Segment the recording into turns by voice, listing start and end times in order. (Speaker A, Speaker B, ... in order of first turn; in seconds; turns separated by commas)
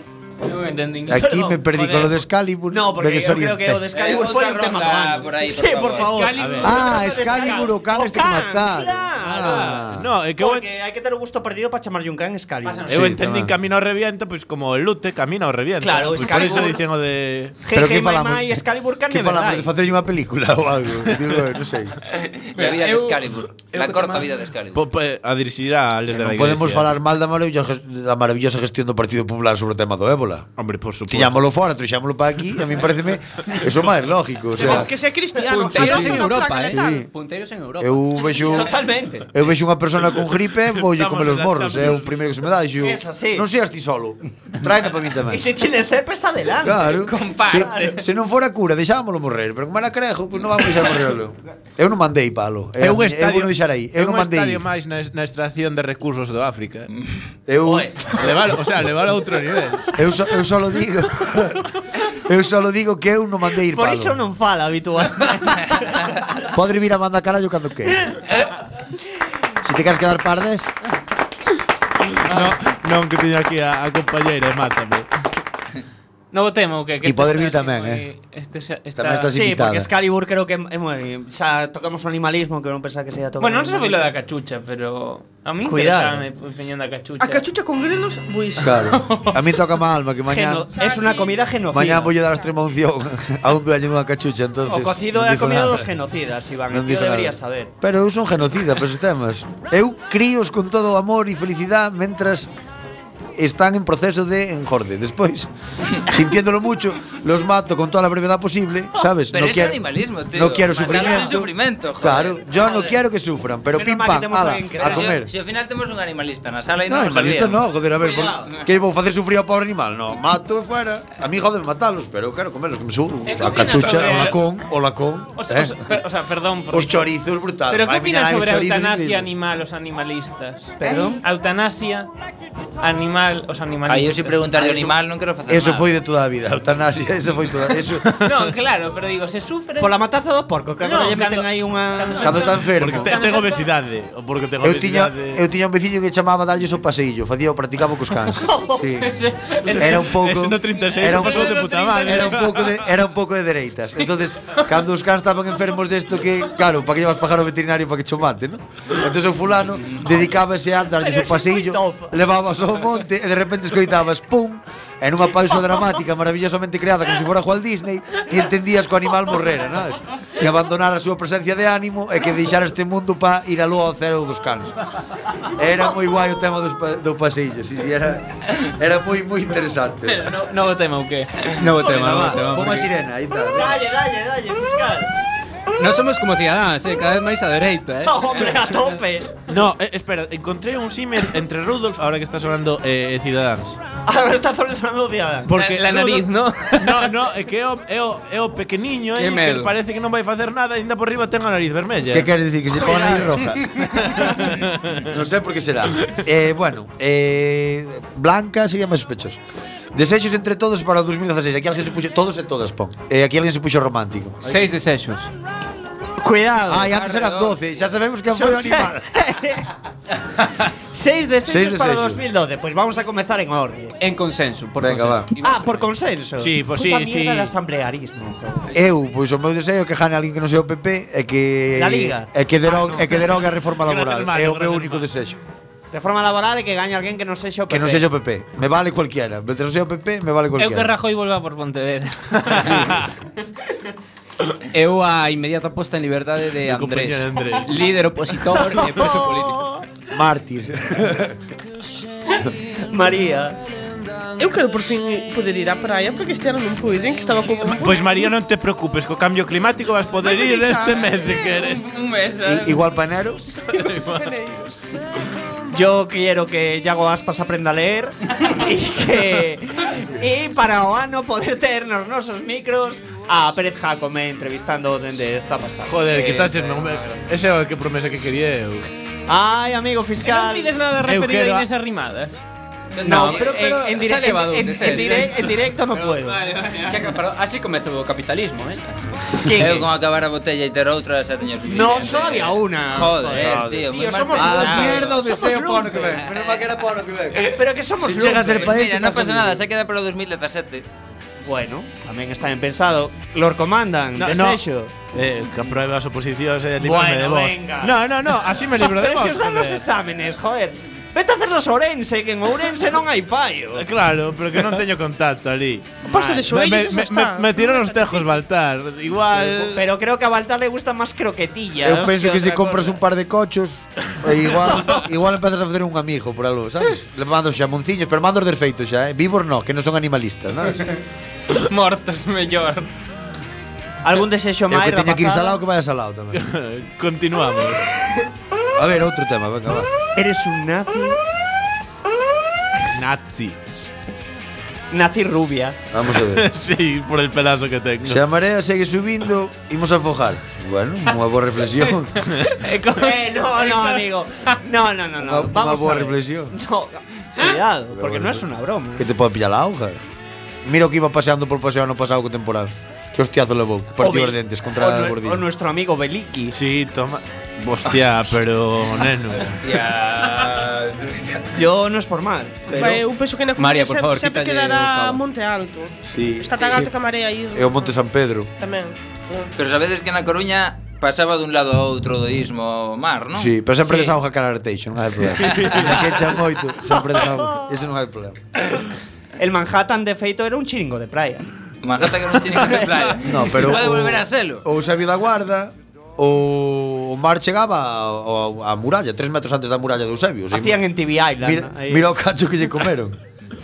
Speaker A: 0.5-1.2, Speaker B: 1.1-3.8, Speaker C: 1.1-9.8, Speaker D: 3.9-6.3, Speaker A: 5.8-7.7, Speaker E: 6.4-6.7, Speaker B: 6.6-10.1, Speaker E: 9.4-10.7, Speaker C: 10.4-12.9, Speaker A: 12.6-13.1, Speaker E: 12.9-17.6, Speaker B: 12.9-13.5, Speaker C: 15.8-16.8, Speaker C: 17.6-19.7, Speaker B: 17.7-21.9, Speaker D: 22.1-24.8, Speaker F: 22.6-24.3, Speaker E: 24.7-26.9, Speaker B: 26.1-30.5, Speaker E: 30.6-31.4, Speaker B: 31.1-34.9, Speaker G: 34.5-37.0, Speaker F: 35.3-38.0, Speaker B: 35.7-37.1, Speaker B: 37.8-38.8, Speaker C: 38.3-39.3, Speaker B: 39.3-45.4, Speaker E: 40.6-42.1, Speaker C: 42.8-43.5, Speaker C: 45.3-48.0, Speaker B: 46.6-54.6, Speaker A: 47.0-48.0, Speaker E: 52.8-56.9, Speaker B: 57.5-58.1, Speaker C: 57.6-58.1, Speaker E: 58.1-60.0, Speaker B: 59.9-61.6, Speaker B: 62.1-64.2, Speaker C: 63.7-66.3, Speaker B: 66.5-68.2, Speaker B: 69.6-70.7, Speaker E: 72.1-75.1, Speaker A: 72.3-72.6, Speaker A: 76.3-79.3, Speaker B: 77.0-78.1, Speaker B: 79.0-79.9, Speaker C: 79.3-84.0, Speaker A: 83.4-87.5, Speaker C: 85.6-86.2, Speaker G: 87.2-88.9, Speaker B: 88.6-90.8, Speaker A: 88.7-89.6, Speaker C: 90.3-92.2, Speaker G: 90.8-91.2, Speaker B: 91.7-95.9, Speaker C: 94.7-97.7, Speaker B: 96.7-102.5, Speaker B: 103.3-105.5, Speaker B: 106.0-115.3, Speaker D: 109.3-112.4, Speaker C: 110.8-111.4, Speaker C: 112.5-113.0, Speaker C: 113.7-115.1, Speaker D: 114.8-117.6, Speaker B: 116.9-125.9, Speaker C: 118.0-118.5, Speaker A: 123.2-124.4, Speaker A: 125.3-127.0, Speaker B: 126.7-129.3, Speaker A: 127.7-132.1, Speaker C: 130.8-131.2, Speaker B: 130.8-131.2, Speaker A: 132.8-134.5, Speaker D: 133.9-135.9, Speaker B: 134.5-134.9, Speaker B: 135.5-138.1, Speaker E: 138.0-138.4, Speaker A: 138.2-140.0, Speaker C: 139.8-142.6, Speaker A: 140.8-143.7, Speaker B: 142.2-143.1, Speaker E: 142.7-145.4, Speaker B: 144.6-149.1, Speaker C: 148.3-148.9, Speaker A: 149.0-152.5, Speaker E: 149.6-152.8, Speaker B: 149.8-174.7, Speaker C: 160.9-162.2, Speaker B: 175.4-180.3, Speaker A: 180.0-181.3, Speaker F: 181.5-182.9, Speaker B: 181.7-183.8, Speaker C: 181.9-182.2, Speaker C: 183.5-185.1, Speaker F: 185.8-188.4, Speaker C: 188.0-189.4, Speaker E: 189.5-193.8, Speaker C: 194.0-195.5, Speaker E: 195.5-202.3, Speaker A: 195.6-197.1, Speaker F: 199.1-199.7, Speaker B: 202.1-203.8, Speaker E: 204.0-205.1, Speaker B: 205.0-209.4, Speaker B: 209.9-214.6, Speaker F: 214.4-215.3, Speaker F: 216.2-216.7, Speaker C: 216.3-216.8, Speaker B: 216.7-219.3, Speaker D: 216.9-217.7, Speaker C: 218.3-219.7, Speaker C: 220.9-223.9, Speaker B: 221.4-222.2, Speaker F: 224.0-225.8, Speaker B: 224.8-225.3, Speaker C: 225.4-228.8, Speaker E: 226.4-227.5, Speaker B: 228.7-235.4, Speaker C: 231.7-233.2, Speaker E: 233.8-235.0, Speaker C: 235.9-238.0, Speaker B: 237.7-240.9, Speaker A: 240.6-242.9, Speaker E: 242.4-243.1, Speaker F: 244.7-249.7, Speaker E: 246.7-247.7, Speaker C: 248.7-249.8, Speaker B: 250.1-251.3, Speaker C: 252.9-253.6, Speaker G: 254.4-258.3, Speaker E: 257.7-261.8, Speaker G: 260.2-261.3, Speaker A: 261.4-262.8, Speaker B: 262.4-263.4, Speaker E: 263.7-264.4, Speaker G: 264.0-264.7, Speaker C: 265.7-276.1, Speaker E: 275.8-278.9, Speaker D: 276.1-277.2, Speaker C: 279.3-280.7, Speaker A: 280.2-282.3, Speaker E: 281.0-281.6, Speaker F: 282.9-285.4, Speaker C: 283.0-286.4, Speaker F: 286.0-288.8, Speaker A: 286.6-286.9, Speaker C: 289.4-289.9, Speaker D: 289.6-295.1, Speaker C: 291.7-296.2, Speaker B: 293.4-299.6, Speaker D: 296.3-296.6, Speaker C: 297.4-298.8, Speaker D: 298.6-300.8, Speaker C: 301.4-304.9, Speaker E: 304.1-304.6, Speaker E: 305.1-309.8, Speaker C: 306.8-313.9, Speaker E: 313.7-315.9, Speaker G: 316.0-318.3, Speaker C: 316.1-316.6, Speaker E: 316.5-319.8, Speaker C: 319.6-323.0, Speaker B: 321.8-330.9, Speaker A: 331.6-332.9, Speaker C: 334.0-335.6, Speaker B: 334.7-336.4, Speaker E: 336.3-337.9, Speaker B: 338.8-339.9, Speaker C: 340.1-341.2, Speaker E: 342.9-343.6, Speaker C: 344.9-345.8, Speaker B: 345.9-346.4, Speaker E: 346.3-348.2, Speaker B: 348.0-352.3, Speaker E: 352.3-352.6, Speaker A: 352.6-354.0, Speaker C: 352.9-359.1, Speaker B: 355.2-356.5, Speaker B: 357.9-358.4, Speaker B: 359.0-360.0, Speaker B: 360.6-365.4, Speaker C: 364.0-366.6, Speaker E: 366.5-369.6, Speaker D: 369.4-371.5, Speaker C: 371.5-373.0, Speaker G: 372.7-378.0, Speaker F: 373.6-375.2, Speaker B: 376.1-376.8, Speaker B: 377.5-378.5, Speaker G: 378.6-379.5, Speaker D: 379.6-383.5, Speaker B: 383.3-388.4, Speaker E: 385.4-385.9, Speaker C: 386.9-387.7, Speaker C: 389.4-391.5, Speaker D: 391.8-394.6, Speaker C: 392.7-393.1, Speaker B: 393.2-400.8, Speaker C: 400.5-402.1, Speaker B: 401.4-403.2